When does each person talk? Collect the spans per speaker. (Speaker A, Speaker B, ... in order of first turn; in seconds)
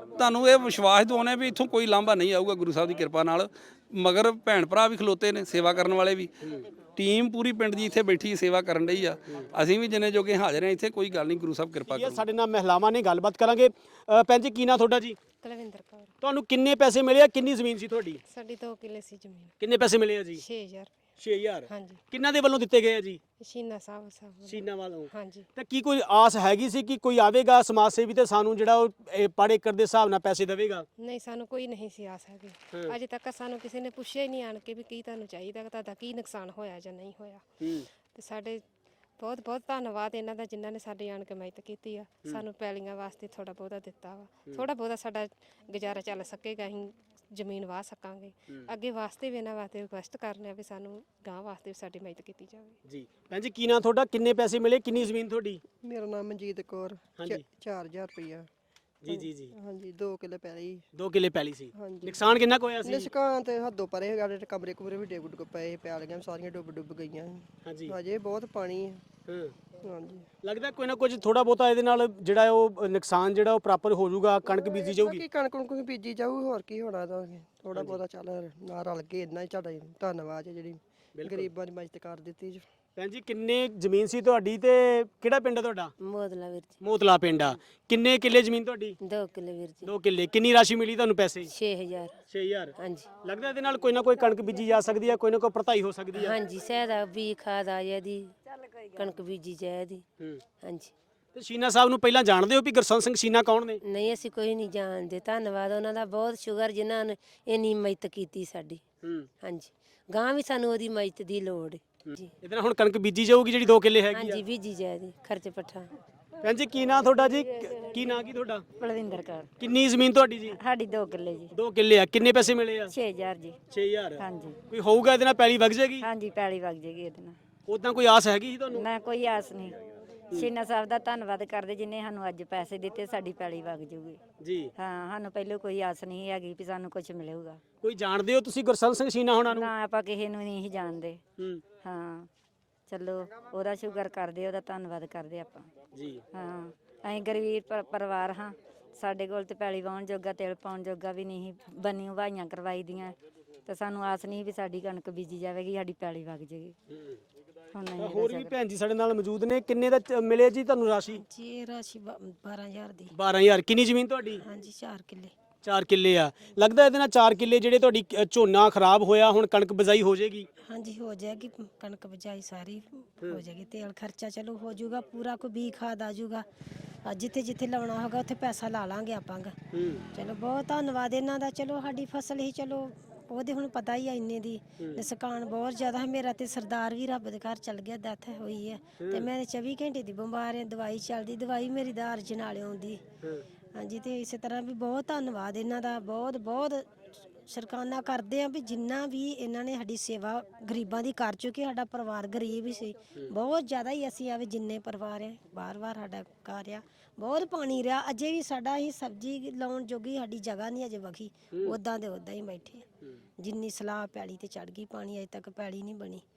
Speaker A: 0.1-12.2
Speaker B: 11.8-15.2, 16.2-18.2, 19.6-20.4, 21.2-23.2, 24.4-30.9, 37.6-37.9, 52.9-55.6, 57.2-57.4, 59.0-59.5, 60.9-63.1, 67.7-67.9, 69.3-69.5, 70.4-75.2, 77.7-78.0, 81.2-81.5, 83.0-85.9, 86.8-89.0, 89.8-91.5, 92.3-96.4, 101.3-103.8, 109.0-109.3, 112.0-114.4, 116.4-118.6, 119.6-120.6, 121.5-122.9, 123.7-126.1, 127.7-128.9, 134.4-134.7, 137.8-139.7, 141.4-141.6, 145.9-146.2, 156.9-157.2, 158.0-161.2, 163.1-164.4, 165.6-170.5, 179.7-180.0, 189.0-189.3, 211.5-211.8
Speaker C: 15.4-16.1, 18.3-19.5, 20.4-20.9, 21.7-22.0, 23.4-25.5, 31.0-37.4, 38.1-38.6, 39.2-52.8
Speaker D: 55.8-58.5, 59.1-60.8, 61.7-69.0, 69.8-70.3, 74.5-82.7
Speaker E: 86.0-86.7, 89.0-89.8, 91.5-92.2, 92.8-93.1, 96.2-98.3, 99.0-100.0, 100.6-100.9, 103.8-108.8, 109.4-112.3, 114.2-115.9
Speaker F: 118.8-119.5, 120.5-121.5, 122.9-123.6, 124.2-124.6, 126.0-127.4, 128.7-129.8, 130.3-134.2, 134.8-137.6, 139.5-141.2, 141.8-142.3, 142.9-145.7, 146.3-156.7, 157.7-158.5
Speaker G: 161.2-163.1, 164.4-165.3, 170.7-176.4, 177.0-179.6, 180.1-193.0, 193.7-212.8, 213.4-216.2